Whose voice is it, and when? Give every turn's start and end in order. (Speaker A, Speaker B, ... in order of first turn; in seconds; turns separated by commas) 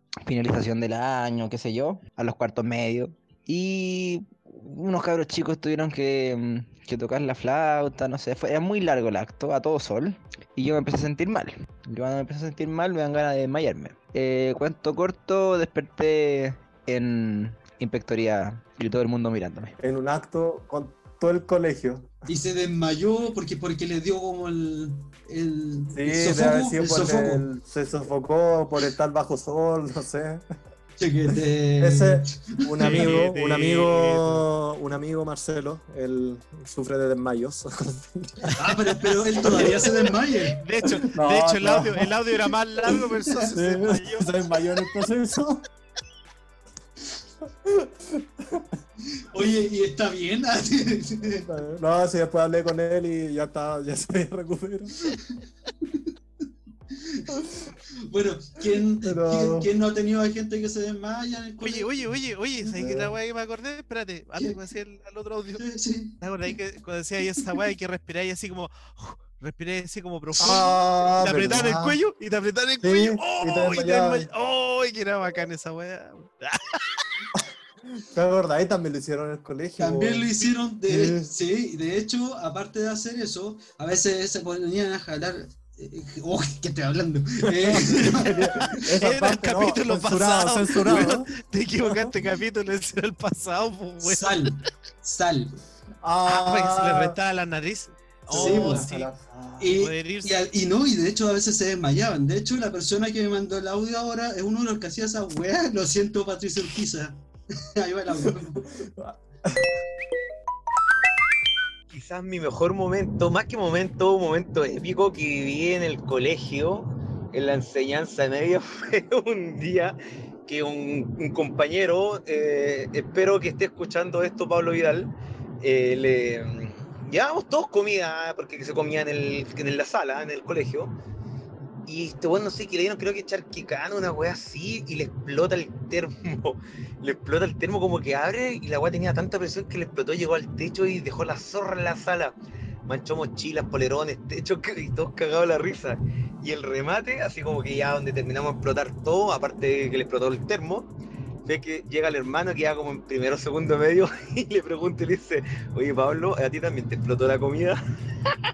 Speaker A: 0.2-19.8, Speaker B: 19.8-22.1, Speaker C: 22.3-27.5, Speaker B: 25.9-30.4, Speaker C: 31.0-33.2, Speaker B: 31.8-38.5, Speaker D: 32.8-34.5, Speaker C: 38.6-40.6, Speaker B: 39.4-40.0, Speaker D: 40.6-44.3, Speaker B: 41.0-42.1, Speaker B: 43.5-45.7, Speaker B: 47.6-48.7, Speaker C: 49.3-51.5, Speaker B: 51.4-55.0, Speaker C: 57.0-57.4, Speaker C: 58.1-62.1, Speaker B: 59.0-59.7, Speaker D: 61.6-65.7, Speaker B: 62.8-63.1, Speaker C: 65.6-66.2, Speaker D: 66.2-77.0, Speaker C: 70.4-70.7, Speaker B: 70.4-72.0, Speaker C: 71.2-71.7, Speaker B: 72.8-74.3, Speaker B: 77.4-80.3, Speaker C: 79.8-88.8, Speaker B: 80.9-81.3, Speaker B: 87.5-91.3, Speaker D: 89.0-94.5, Speaker B: 91.8-92.1, Speaker C: 94.0-95.5, Speaker B: 96.0-97.2, Speaker D: 96.3-99.1, Speaker B: 98.3-99.7, Speaker C: 98.3-98.9, Speaker C: 99.6-107.2, Speaker D: 99.7-100.3, Speaker C: 107.8-108.7, Speaker B: 108.2-109.8, Speaker E: 111.9-130.9, Speaker E: 131.9-142.3, Speaker E: 142.9-150.9, Speaker E: 151.4-157.8